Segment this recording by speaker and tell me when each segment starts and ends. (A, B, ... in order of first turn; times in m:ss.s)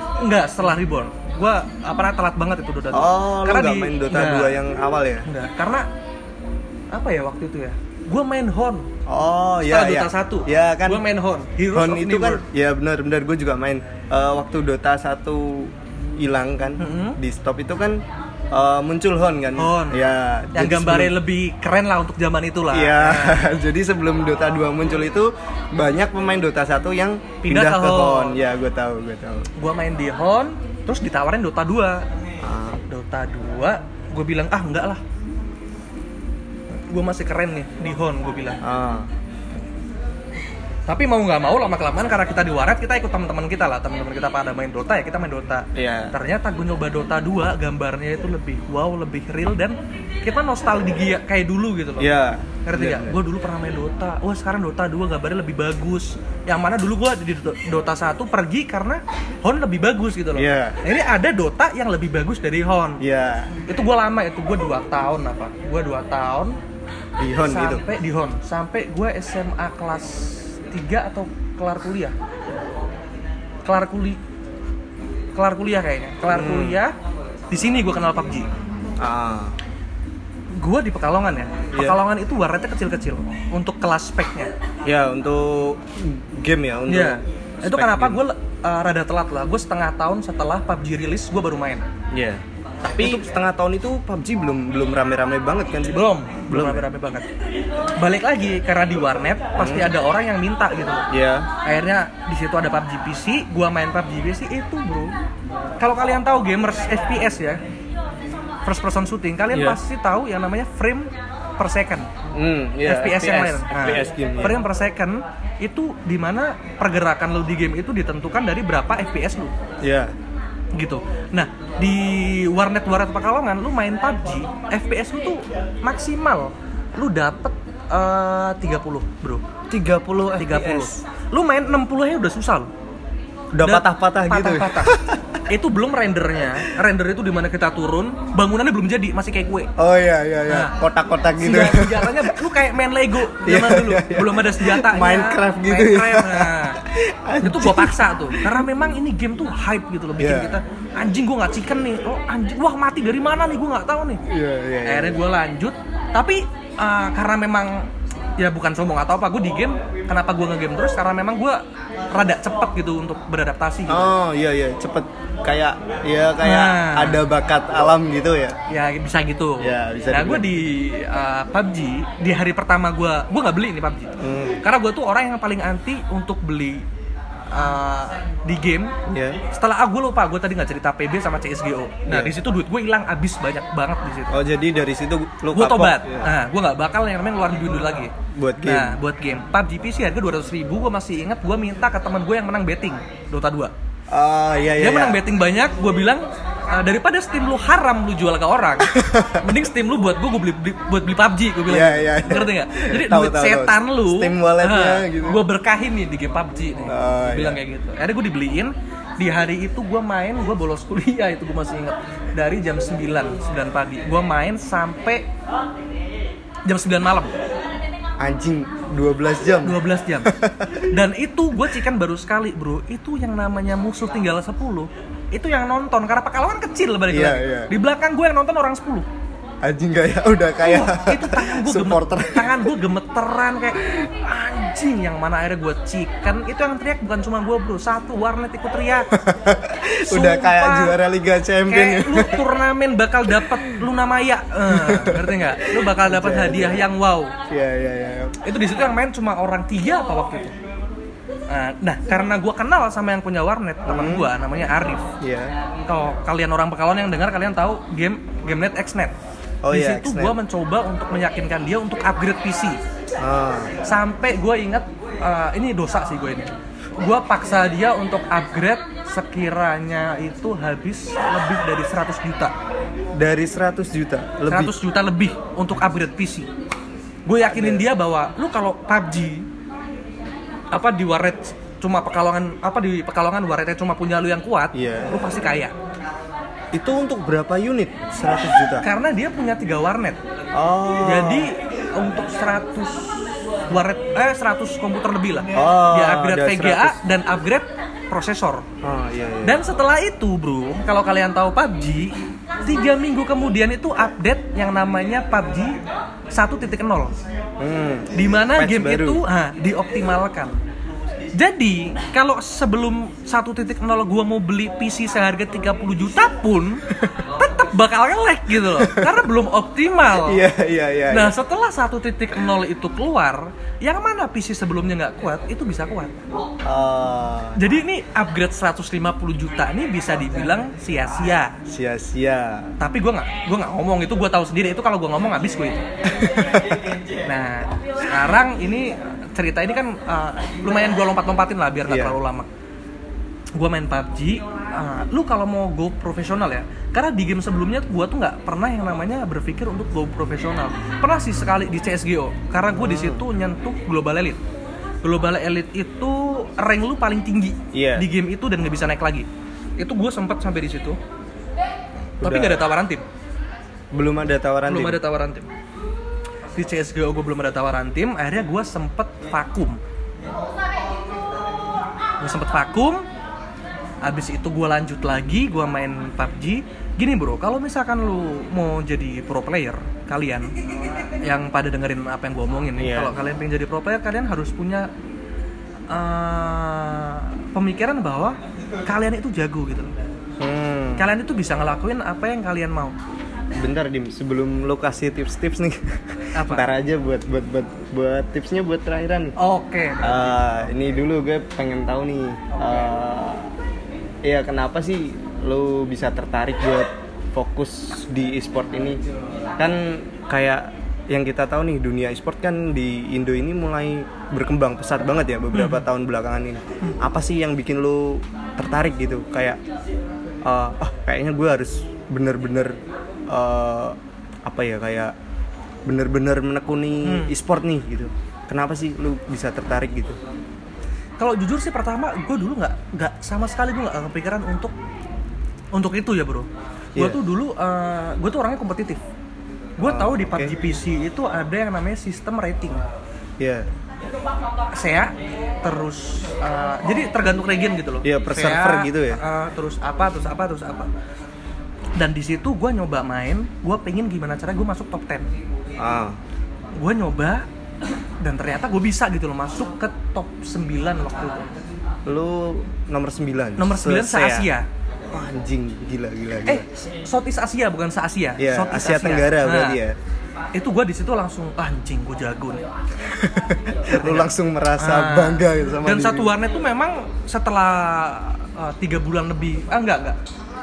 0:00.2-0:04.6 A
0:02.9-0:05.3 B
0:05.2-0:05.9 A
0:06.9-0:08.9 A
0:09.0-0:11.0 B
0:09.6-0:12.4 A
0:11.7-0:21.1 B
0:16.8-0:17.2 A
0:19.6-0:23.4 A
0:22.7-0:29.5 B
0:27.4-0:28.4 A
0:29.6-0:32.0 A
0:32.4-0:32.8 B
0:32.9-0:35.0 A
0:36.9-0:38.6 A
0:38.6-0:39.1 B
0:40.9-0:52.1 A
0:45.7-0:46.1 B
0:52.0-0:53.2 B
0:52.6-1:03.0 A
1:00.3-1:00.8 B
1:03.0-1:03.6 B
1:03.7-1:06.6 A
1:07.2-1:07.8 B
1:07.4-1:12.1 A
1:13.6-1:14.2 A
1:15.4-1:16.9 A
1:16.3-1:16.8 B
1:17.5-1:18.5 A
1:19.0-1:19.5 B
1:20.6-1:24.5 A
1:21.7-1:22.0 B
1:24.8-1:28.2 B
1:26.9-1:31.8 A
1:32.1-1:36.8 B
1:32.8-1:33.2 A
1:35.9-1:37.2 A
1:38.0-1:41.0 A
1:39.6-1:39.9 B
1:41.1-1:41.5 B
1:41.6-1:45.1 A
1:45.8-1:47.6 A
1:48.6-1:52.1 A
1:49.5-1:49.8 B
1:52.3-1:54.6 B
1:52.8-1:59.5 A
1:59.8-2:00.1 B
2:00.7-2:09.4 A
2:09.7-2:11.0 B
2:10.4-2:12.7 A
2:13.5-2:15.4 B
2:13.6-2:19.7 A
2:19.8-2:22.3 B
2:20.5-2:20.8 A
2:21.4-2:26.8 A
2:23.4-2:28.6 B
2:27.4-2:34.2 A
2:30.2-2:30.6 B
2:34.3-2:35.2 B
2:34.8-2:44.1 A
2:43.9-2:48.6 B
2:46.4-2:47.2 A
2:48.7-2:56.8 A
2:49.6-2:50.5 B
2:54.2-2:54.6 B
2:57.5-3:04.4 A
2:59.1-2:59.4 B
3:02.1-3:02.4 B
3:04.3-3:06.3 B
3:05.5-3:13.7 A
3:08.3-3:09.0 B
3:14.1-3:15.2 B
3:14.8-3:35.2 A
3:18.8-3:19.5 B
3:21.7-3:25.4 B
3:26.8-3:27.6 B
3:36.6-3:37.3 A
3:38.2-3:40.8 B
3:39.6-3:40.3 A
3:40.9-3:49.1 A
3:47.1-3:47.7 B
3:49.6-3:52.7 B
3:50.6-3:59.1 A
3:59.1-4:02.4 B
4:00.0-4:01.0 A
4:01.7-4:07.3 A
4:03.4-4:03.8 B
4:04.7-4:06.9 B
4:07.5-4:08.4 B
4:08.4-4:10.5 A
4:11.5-4:15.1 A
4:13.8-4:14.3 B
4:15.2-4:15.5 B
4:15.9-4:19.1 A
4:19.6-4:20.4 B
4:19.7-4:22.8 A
4:23.2-4:23.7 B
4:23.8-4:32.5 A
4:33.1-4:34.7 B
4:34.5-4:36.5 A
4:37.2-4:39.4 A
4:37.4-4:37.8 B
4:40.7-4:45.7 A
4:44.7-4:45.2 B
4:46.7-4:48.8 B
4:48.8-4:50.2 A
4:50.5-4:51.5 B
4:51.0-4:58.6 A
4:55.5-4:57.0 B
4:58.8-4:59.6 B
4:59.4-5:05.8 A
5:06.3-5:07.1 A
5:07.6-5:09.2 B
5:08.1-5:10.6 A
5:11.3-5:20.4 A
5:18.7-5:19.1 B
5:20.2-5:21.3 B
5:21.1-5:26.2 A
5:26.6-5:27.6 B
5:27.6-5:31.6 A
5:31.6-5:32.7 B
5:32.8-5:35.8 A
5:36.2-5:36.8 B
5:37.2-5:42.5 A
5:41.9-5:42.2 B
5:43.5-5:54.4 A
5:52.7-5:53.2 B
5:55.0-5:59.3 A
5:57.7-5:58.1 B
5:59.8-6:01.0 A
6:02.2-6:02.6 B
6:02.2-6:03.0 A
6:03.9-6:05.0 B
6:04.7-6:05.5 A
6:06.5-6:09.8 A
6:12.2-6:13.0 A
6:14.0-6:24.9 A
6:22.8-6:23.1 B
6:25.9-6:29.9 A
6:30.4-6:31.1 B
6:31.0-6:32.9 A
6:33.6-6:39.3 B
6:36.3-6:36.7 A
6:39.4-6:40.4 A
6:40.0-6:43.5 B
6:44.2-6:49.0 B
6:49.6-6:59.6 B
6:55.5-6:55.8 A
7:00.4-7:02.8 B
7:03.3-7:05.1 B
7:05.8-7:10.2 B
7:07.0-7:07.3 A
7:11.2-7:14.7 A
7:15.7-7:19.0 A
7:19.8-7:22.8 A
7:19.8-7:20.5 B
7:23.4-7:23.7 B
7:24.7-7:30.9 A
7:28.0-7:29.2 B
7:32.0-7:35.3 A
7:35.8-7:36.2 B
7:36.8-7:37.4 A
7:38.2-7:41.5 A
7:42.0-7:44.5 B
7:43.6-7:44.6 A
7:45.1-7:46.6 B
7:46.4-7:49.8 A
7:48.4-7:50.0 B
7:50.5-7:52.6 A
7:53.0-7:56.3 B
7:53.9-8:00.2 A